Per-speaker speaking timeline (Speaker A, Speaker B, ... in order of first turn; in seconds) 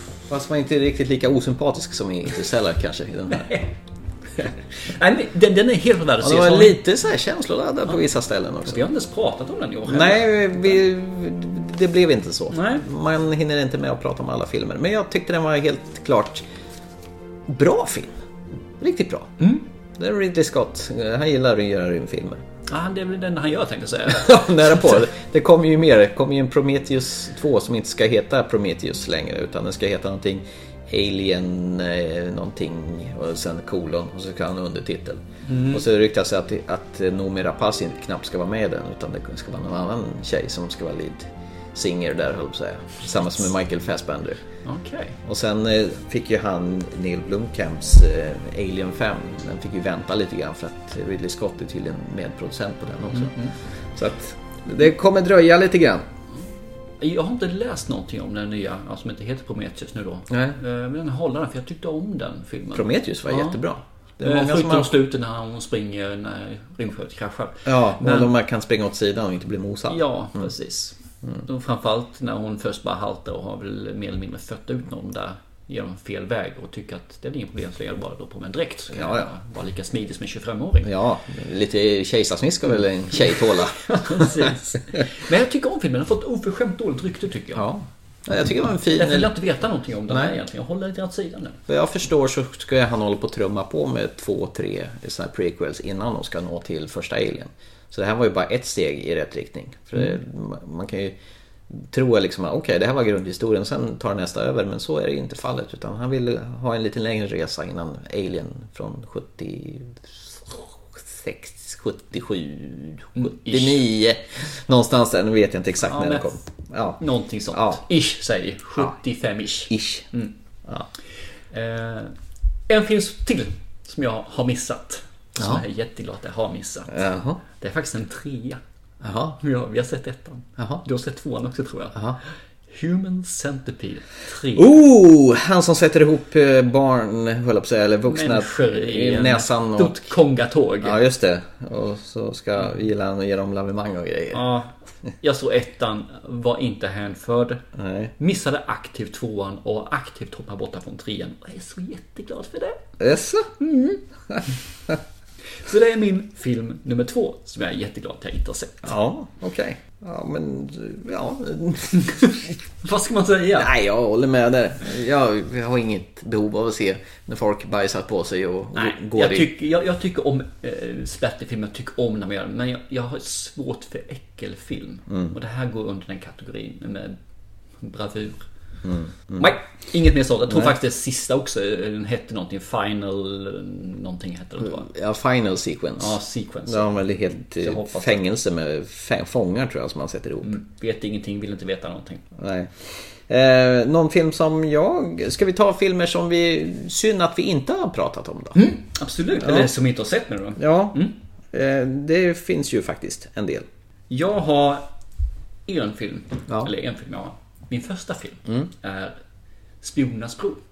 Speaker A: 0.3-3.5, 6.2-8.8, 9.9-16.4, 17.5-18.1, 18.8-19.3, 20.0-22.4, 24.1-44.4, 45.2-53.4, 54.0-56.0, 60.3-60.6, 62.7-64.9, 67.7-70.5, 78.9-79.3, 80.8-84.5, 87.5-89.3, 90.1-90.4, 91.7-101.2, 101.7-117.0, 117.5-117.8, 119.7-120.1, 125.4-125.6, 126.9-127.4, 129.0-129.4, 130.6-130.8, 134.6-140.1, 140.8-144.4, 147.8-148.1, 153.0-153.5, 154.3-155.0, 158.8-162.5, 163.6-169.5, 175.1-175.3, 178.8-179.5, 180.5-180.7, 184.6-190.6, 192.4-198.6, 199.4-199.7, 200.6-201.0, 201.5-203.7
Speaker B: 3.3-3.8, 4.4-6.8, 8.7-10.8, 12.5-12.8, 22.7-25.1, 35.5-35.9, 44.6-45.2, 53.1-53.5, 57.0-63.6, 64.2-68.3, 69.9-80.9, 83.1-87.7, 88.8-91.6, 113.2-113.8, 115.8-116.4, 117.0-120.3, 121.5-122.1, 122.7-126.9, 127.5-128.6, 129.4-132.1, 132.7-134.8, 138.1-141.0, 144.3-147.6, 148.2-152.8, 153.6-154.0, 155.6-158.9, 162.8-163.7, 168.8-177.2, 177.8-178.5, 179.4-184.9, 186.0-188.2, 190.4-192.2, 198.6-201.1, 204.1-204.9, 205.7-209.2, 209.8-210.6